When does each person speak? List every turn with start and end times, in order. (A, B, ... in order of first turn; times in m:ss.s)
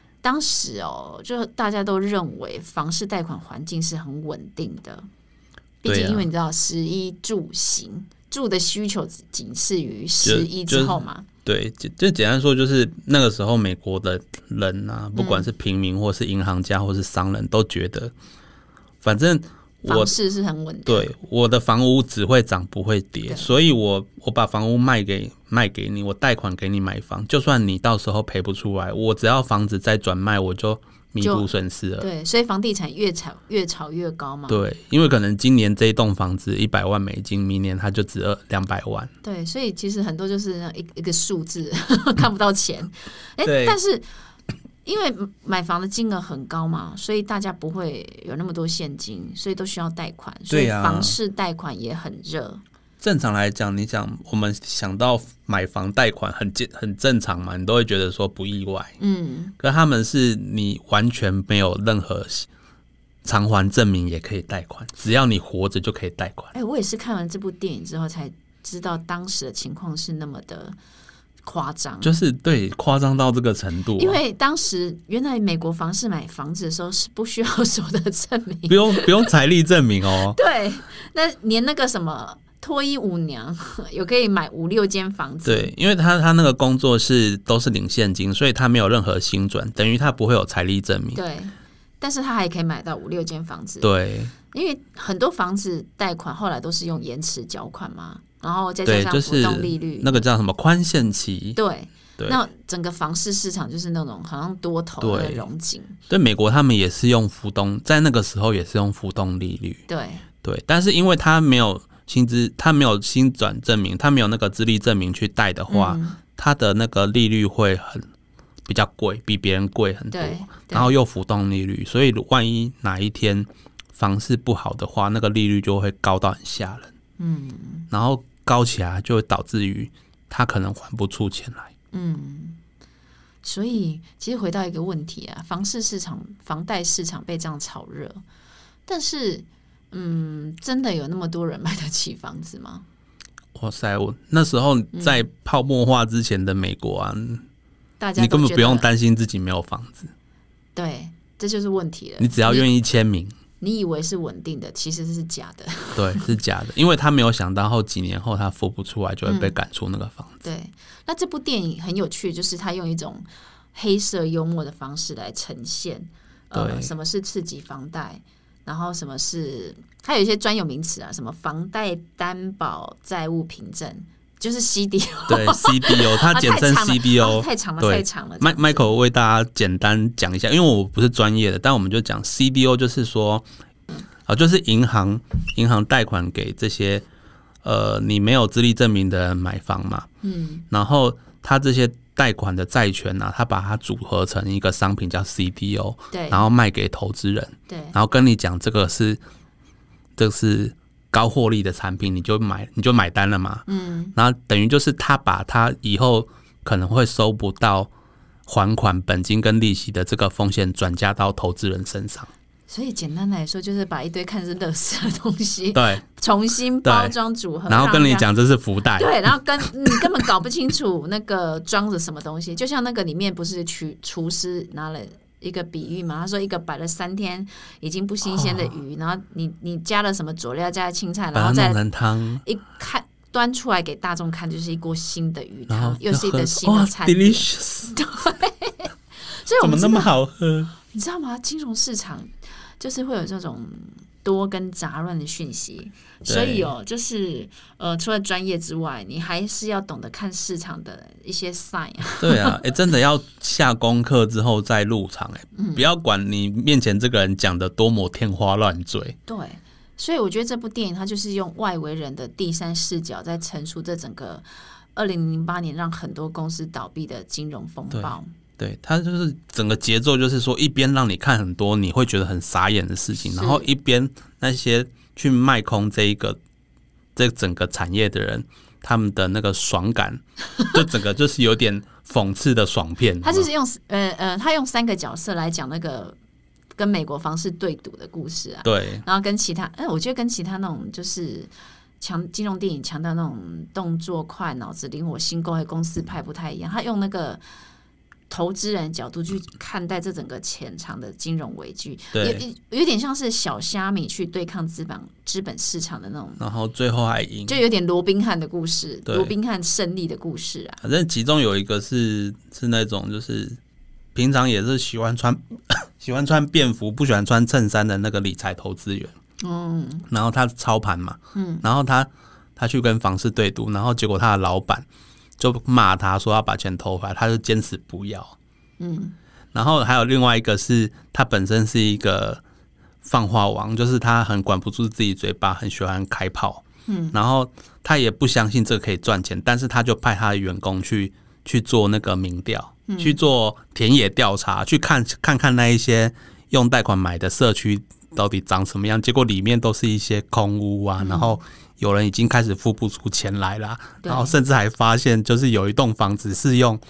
0:00.2-0:05.1 A
0:05.8-0:11.3 A
0:05.8-0:06.3 B
0:10.2-0:18.1 B
0:15.2-0:15.5 A
0:19.0-0:20.2 B
0:19.9-0:21.1 A
0:20.9-0:32.1 B
0:23.3-0:23.5 A
0:31.2-0:34.7 A
0:34.5-0:39.1 B
0:39.2-0:44.1 A
0:43.4-0:43.8 B
0:44.8-0:52.6 A
0:50.5-0:51.2 B
0:53.0-0:59.0 B
0:59.0-0:59.6 A
0:59.6-1:02.5 B
1:03.2-1:06.5 B
1:06.5-1:10.8 A
1:11.4-1:12.1 A
1:12.0-1:14.2 B
1:14.0-1:19.3 A
1:18.7-1:20.4 B
1:20.3-1:25.7 A
1:25.4-1:31.2 B
1:31.1-1:33.9 A
1:33.8-1:34.3 B
1:34.5-1:40.3 A
1:38.9-1:41.6 B
1:41.6-1:46.0 A
1:45.0-1:45.4 B
1:46.1-1:49.8 B
1:49.9-1:50.2 A
1:50.4-1:58.1 B
1:55.7-1:56.2 A
1:58.7-2:06.9 B
2:00.1-2:01.0 A
2:07.2-2:07.9 A
2:07.9-2:11.7 B
2:11.9-2:12.6 A
2:13.4-2:18.2 A
2:18.9-2:22.8 A
2:23.6-2:27.4 B
2:24.9-2:25.2 A
2:28.0-2:28.9 A
2:28.2-2:30.1 B
2:30.8-2:32.7 A
2:32.2-2:33.4 B
2:33.6-2:36.3 A
2:36.0-2:40.4 B
2:39.2-2:39.6 A
2:40.4-2:58.9 A
2:46.5-2:46.9 B
2:55.3-3:03.4 B
3:04.3-3:07.0 B
3:07.6-3:10.1 B
3:10.2-3:10.6 A
3:10.7-3:19.2 B
3:16.1-3:16.5 A
3:17.7-3:18.0 A
3:20.2-3:27.9 B
3:23.7-3:24.1 A
3:28.5-3:32.3 B
3:32.7-3:38.3 A
3:35.7-3:36.0 B
3:36.8-3:37.2 B
3:37.7-3:40.0 B
3:39.0-3:51.8 A
3:48.2-3:48.7 B
3:51.3-3:52.4 B
3:52.4-4:00.1 A
3:55.7-3:58.0 B
3:59.6-4:00.8 B
4:00.9-4:12.6 A
4:06.3-4:06.7 B
4:12.2-4:19.2 B
4:15.6-4:15.9 A
4:19.3-4:28.3 A
4:27.9-4:36.4 B
4:33.1-4:33.7 A
4:37.2-4:43.5 B
4:43.2-4:46.2 A
4:46.8-4:57.4 A
4:48.6-4:49.0 B
4:58.3-5:06.4 A
5:02.1-5:02.4 B
5:06.4-5:07.6 B
5:07.5-5:10.8 A
5:09.1-5:09.3 B
5:10.8-5:13.6 B
5:14.2-5:19.1 B
5:19.4-5:20.1 A
5:20.1-5:24.9 B
5:21.4-5:21.6 A
5:25.4-5:28.4 B
5:28.8-5:29.2 A
5:29.5-5:32.4 B
5:33.0-5:56.8 B
5:36.9-5:37.2 A
5:42.9-5:43.2 A
5:51.0-5:51.4 A
5:54.0-5:54.4 A